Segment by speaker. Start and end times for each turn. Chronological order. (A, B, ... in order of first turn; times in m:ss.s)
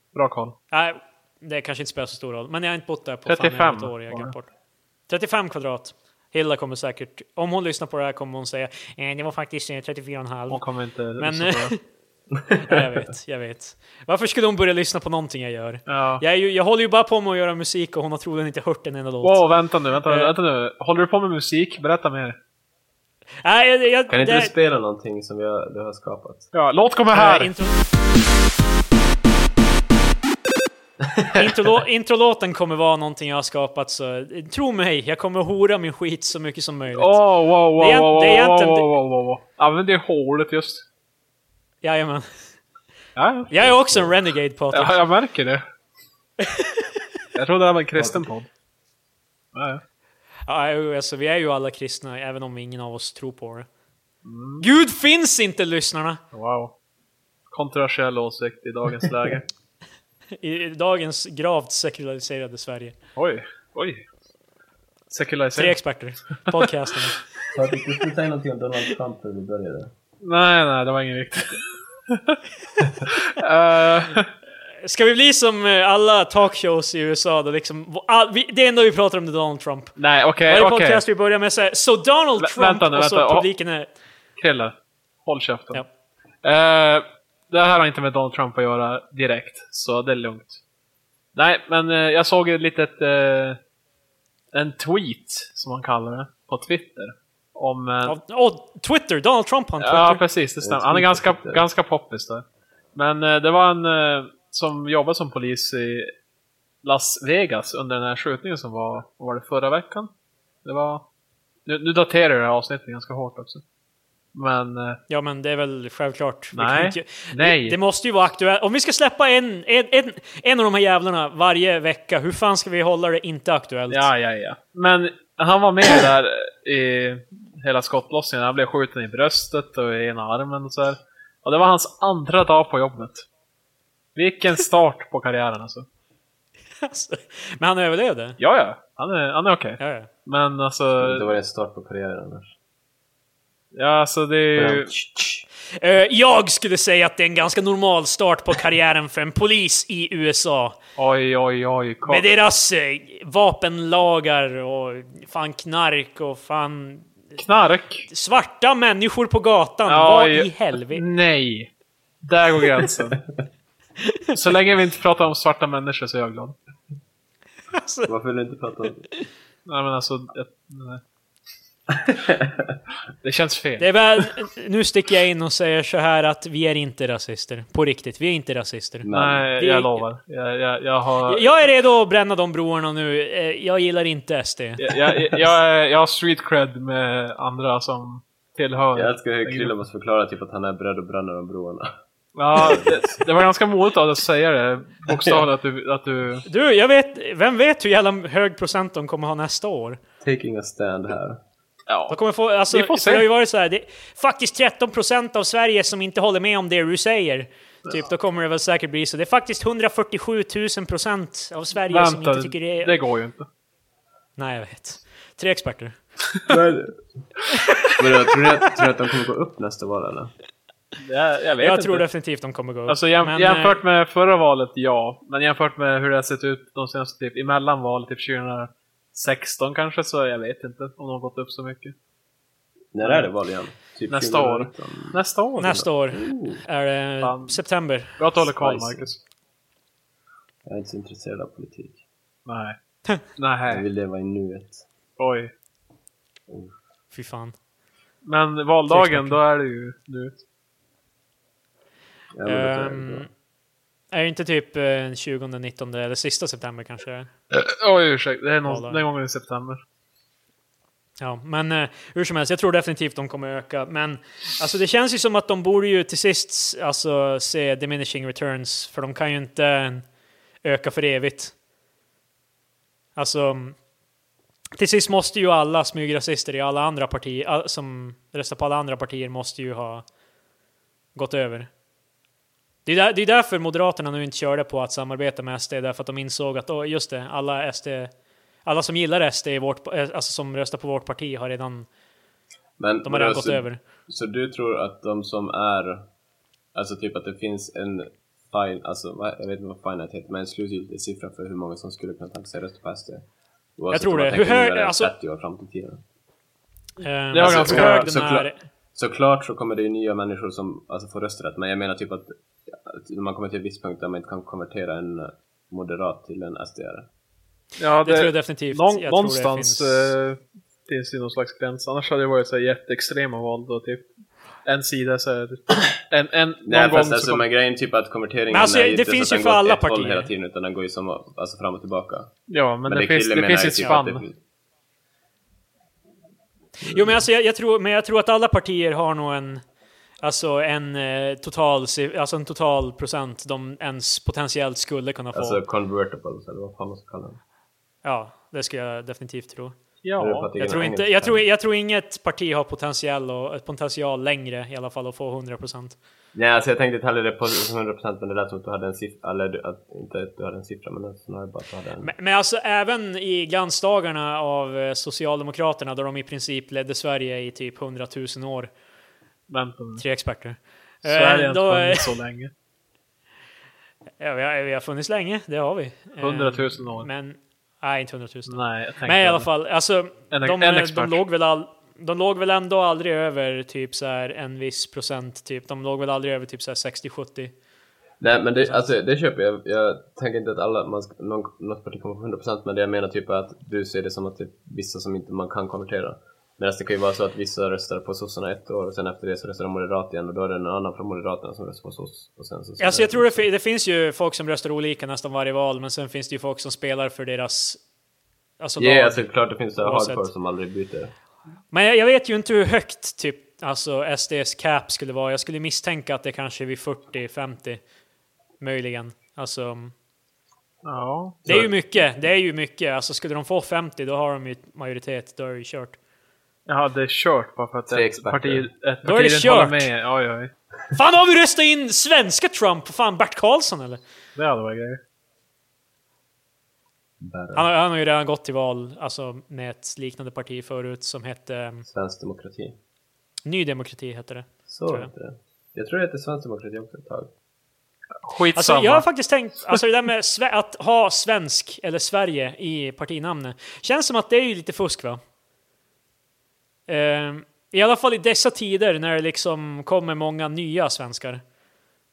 0:00.1-0:00.6 A
0:00.7-0:04.5 B
0:03.2-0:04.3 A
0:05.1-0:10.6 B
0:10.5-0:11.7 A
0:11.2-0:11.8 B
0:12.4-0:12.8 C
0:12.6-0:19.4 B
0:15.9-0:16.2 A
0:19.2-0:22.4 A
0:20.1-0:20.3 B
0:23.4-0:24.5 B
0:24.1-0:26.5 C
0:26.5-0:27.5 A
0:27.1-0:27.8 B
0:31.1-0:31.5 C
0:31.3-0:37.2 B
0:36.9-0:40.8 A
0:37.8-0:38.9 B
0:41.8-0:42.2 B
0:43.2-0:43.7 A
0:43.5-0:44.9 B
0:43.7-0:44.1 C
0:44.7-0:45.6 A
0:46.4-0:46.9 B
0:47.3-0:48.5 A
0:48.0-0:48.3 C
0:49.5-0:49.8 A
0:50.5-0:53.7 B
0:54.2-0:54.6 A
0:54.6-0:56.2 B
0:56.3-0:56.7 A
0:57.5-0:59.4 A
1:00.4-1:03.0 B
1:03.2-1:04.0 A
1:05.1-1:05.8 A
1:05.5-1:07.2 B
1:07.5-1:09.9 C
1:10.2-1:12.4 A
1:13.1-1:14.3 A
1:14.8-1:19.9 B
1:20.0-1:21.0 A
1:20.5-1:23.9 B
1:22.4-1:23.5 A
1:24.4-1:24.7 A
1:25.2-1:25.8 A
1:26.4-1:30.6 A
1:31.3-1:33.6 A
1:34.5-1:38.2 A
1:38.0-1:40.2 B
1:39.8-1:46.1 A
1:40.6-1:41.6 C
1:46.8-1:50.1 A
1:50.6-1:51.0 A
1:51.6-1:53.6 A
1:54.3-1:55.0 A
1:55.1-2:04.1 B
1:56.5-1:57.8 A
2:03.9-2:13.2 A
2:14.2-2:15.8 A
2:16.8-2:18.4 B
2:18.4-2:21.3 A
2:19.8-2:20.1 B
2:21.0-2:22.5 C
2:23.7-2:24.9 A
2:24.5-2:25.4 C
2:25.8-2:30.8 B
2:31.0-2:32.3 A
2:32.0-2:37.1 B
2:37.4-2:38.1 A
2:38.1-2:41.0 B
2:39.9-2:41.7 A
2:42.2-2:43.2 A
2:44.0-2:44.3 B
2:44.3-2:46.5 A
2:47.7-2:48.1 B
2:48.1-2:49.0 C
2:49.6-2:51.0 A
2:51.9-2:52.8 C
2:53.2-2:53.9 A
2:53.8-3:00.0 B
2:59.0-2:59.5 C
2:59.1-3:01.5 A
3:01.2-3:04.9 B
3:04.8-3:09.7 A
3:08.9-3:11.9 C
3:12.3-3:16.4 A
3:12.5-3:13.2 C
3:15.1-3:15.4 C
3:16.4-3:20.0 B
3:20.2-3:21.4 C
3:21.9-3:22.2 A
3:22.1-3:33.0 B
3:22.7-3:23.2 A
3:31.9-3:33.4 A
3:34.4-3:36.0 B
3:36.5-3:37.0 C
3:38.0-3:40.3 C
3:41.0-3:42.0 A
3:41.6-3:43.8 B
3:42.9-3:51.9 A
3:52.9-3:56.6 C
3:53.0-3:53.3 A
3:54.1-3:55.8 A
3:55.6-3:58.2 B
3:57.2-3:59.2 A
3:58.5-3:59.1 C
4:00.6-4:02.0 C
4:02.4-4:03.8 A
4:03.7-4:04.8 C
4:05.2-4:05.5 A
4:06.5-4:06.7 C
4:07.1-4:07.5 B
4:08.2-4:10.4 A
4:08.9-4:09.4 B
4:12.4-4:13.3 C
4:12.4-4:13.3 B
4:14.1-4:17.3 B
4:17.5-4:19.8 A
4:18.6-4:19.0 B
4:21.2-4:30.1 B
4:30.6-4:31.5 B
4:33.2-4:33.8 B
4:34.8-4:40.0 B
4:41.1-4:41.7 B
4:42.8-4:48.1 B
4:48.6-4:51.9 B
4:52.8-4:56.0 C
4:53.0-4:53.8 B
4:56.7-5:03.2 C
5:03.8-5:06.0 C
5:03.9-5:05.1 B
5:07.0-5:08.6 B
5:07.3-5:08.1 A
5:07.3-5:17.1 C
5:17.8-5:24.1 A
5:18.0-5:20.1 B
5:24.6-5:27.4 A
5:26.6-5:32.3 C
5:28.5-5:30.3 B
5:32.5-5:34.2 A
5:32.8-5:34.4 C
5:36.8-5:37.2 C
5:36.8-5:39.6 B
5:40.2-5:45.6 B
5:45.3-5:47.4 C
5:48.0-5:49.8 B
5:50.0-5:50.5 A
5:50.2-5:51.4 C
5:50.6-5:56.0 B
5:56.3-6:02.1 C
6:02.0-6:08.7 B
6:09.5-6:10.0 A
6:10.0-6:12.1 B
6:11.0-6:12.5 A
6:14.2-6:27.5 B
6:16.2-6:17.1 A
6:18.4-6:19.5 A
6:20.3-6:21.2 A
6:28.2-6:43.4 C
6:42.8-6:47.8 B
6:48.6-6:50.2 B
6:48.8-6:51.1 C
6:51.7-6:57.8 B
6:58.6-6:59.9 B
7:00.8-7:01.4 A
7:01.4-7:01.7 C
7:01.4-7:06.0 B
7:06.7-7:10.5 A
7:07.9-7:08.7 C
7:09.0-7:09.8 B
7:10.9-7:14.0 B
7:14.4-7:15.0 A
7:17.2-7:17.7 C
7:17.5-7:21.8 B
7:21.9-7:22.7 C
7:23.4-7:25.1 B
7:24.7-7:27.3 C
7:28.2-7:29.0 A
7:28.5-7:35.2 B
7:36.9-7:41.4 B